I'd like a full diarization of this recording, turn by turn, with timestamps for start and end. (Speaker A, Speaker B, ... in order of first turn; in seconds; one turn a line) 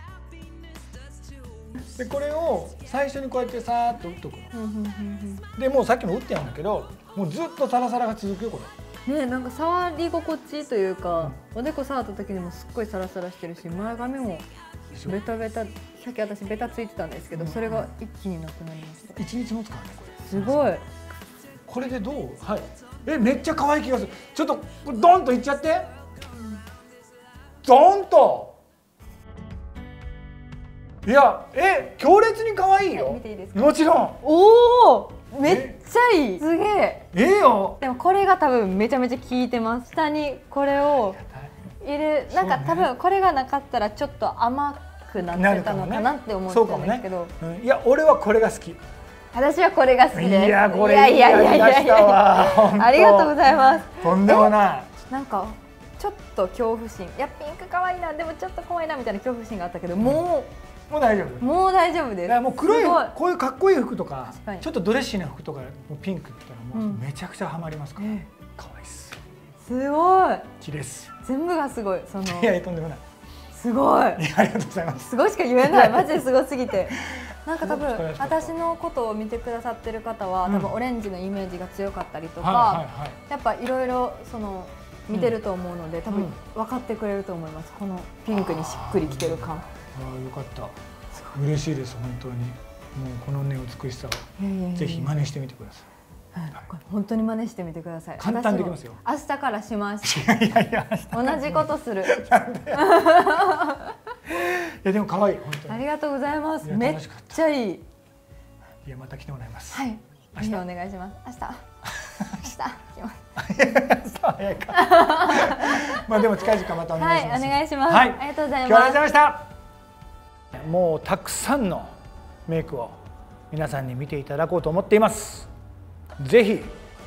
Speaker A: 2.0-4.5
Speaker B: 4.5-5.5
Speaker A: 5.6-8.7
Speaker B: 9.1-14.4
Speaker A: 14.9-15.2
Speaker B: 15.0-19.2
Speaker A: 17.3-17.9
Speaker A: 19.2-20.8
Speaker B: 20.3-20.8
Speaker A: 21.7-25.9
Speaker A: 27.6-28.6
Speaker A: 31.0-34.2
Speaker B: 32.9-37.1
Speaker A: 35.4-35.8
Speaker A: 37.1-37.8
Speaker B: 37.8-41.2
Speaker A: 40.7-41.5
Speaker B: 41.8-47.3
Speaker A: 42.3-42.9
Speaker A: 45.2-48.8
Speaker B: 49.3-54.5
Speaker A: 50.1-54.9
Speaker B: 55.1-60.5
Speaker A: 60.9-61.5
Speaker B: 61.4-63.1
Speaker A: 62.2-69.2
Speaker B: 64.3-64.7
Speaker B: 66.7-67.0
Speaker B: 68.0-68.3
Speaker B: 69.6-70.5
Speaker A: 70.6-71.2
Speaker B: 71.2-72.5
Speaker A: 72.2-73.0
Speaker B: 73.5-74.2
Speaker A: 74.2-78.6
Speaker B: 75.0-89.7
Speaker A: 80.5-80.8
Speaker A: 82.4-83.2
Speaker A: 85.1-85.4
Speaker A: 86.1-86.4
Speaker A: 88.3-95.9
Speaker B: 94.4-95.1
Speaker B: 96.3-100.3
Speaker A: 98.2-99.0
Speaker A: 100.0-103.1
Speaker B: 101.1-102.2
Speaker B: 102.7-104.0
Speaker A: 104.2-105.8
Speaker B: 105.7-107.8
Speaker A: 106.6-107.5
Speaker A: 108.8-110.6
Speaker B: 109.7-111.6
Speaker A: 111.9-112.5
Speaker B: 112.2-113.2
Speaker A: 113.4-119.5
Speaker B: 114.7-119.0
Speaker A: 120.5-125.5
Speaker A: 126.2-126.8